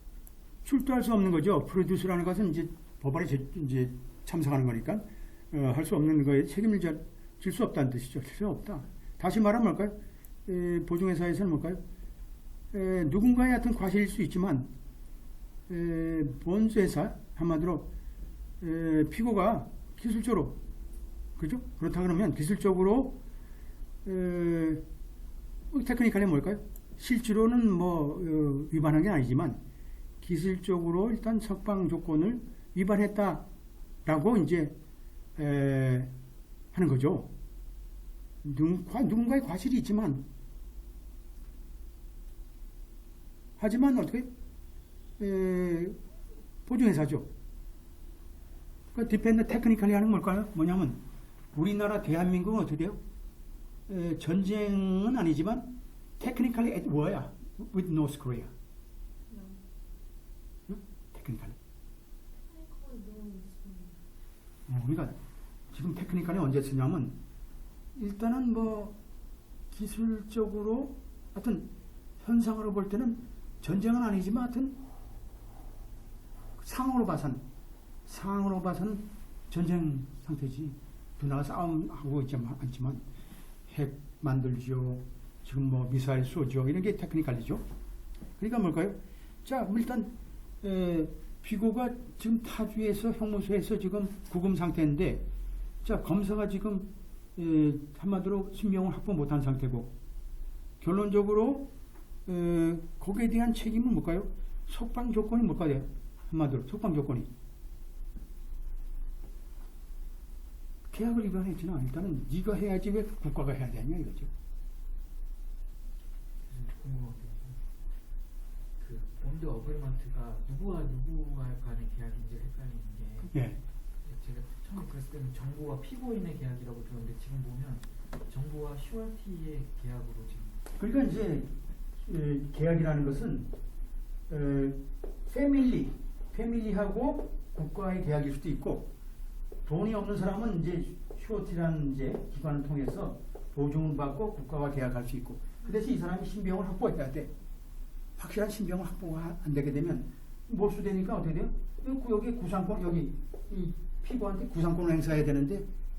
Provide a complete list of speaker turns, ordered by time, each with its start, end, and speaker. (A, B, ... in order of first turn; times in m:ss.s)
0:00.6-0:11.8 A
0:12.7-0:14.7 A
0:15.7-0:17.9 A
0:18.6-0:20.6 A
0:21.4-0:23.2 A
0:24.0-0:24.8 A
0:25.7-0:29.6 A
0:30.2-0:33.4 A
0:34.0-0:34.8 A
0:35.4-0:36.1 A
0:36.7-0:37.3 A
0:38.4-0:40.2 A
0:43.6-0:44.3 A
0:45.2-0:46.0 A
0:46.7-0:47.3 A
0:48.9-0:51.0 A
0:51.5-0:53.0 A
0:53.9-0:58.5 A
0:59.3-0:59.6 B
1:00.7-1:01.6 A
1:02.5-1:04.0 B
1:04.7-1:05.2 A
1:05.7-1:07.2 A
1:08.0-1:09.0 A
1:09.7-1:14.8 A
1:16.6-1:17.4 A
1:18.1-1:23.0 A
1:23.7-1:27.6 A
1:28.4-1:35.3 A
1:35.8-1:39.9 A
1:40.8-1:41.7 A
1:42.3-1:47.3 A
1:50.9-1:54.3 A
1:56.5-1:57.6 C
1:58.8-2:03.3 C
2:03.3-2:03.6 A
2:04.0-2:10.6 C
2:10.8-2:13.5 A
2:14.3-2:18.9 A
2:19.6-2:27.3 A
2:28.2-2:35.7 A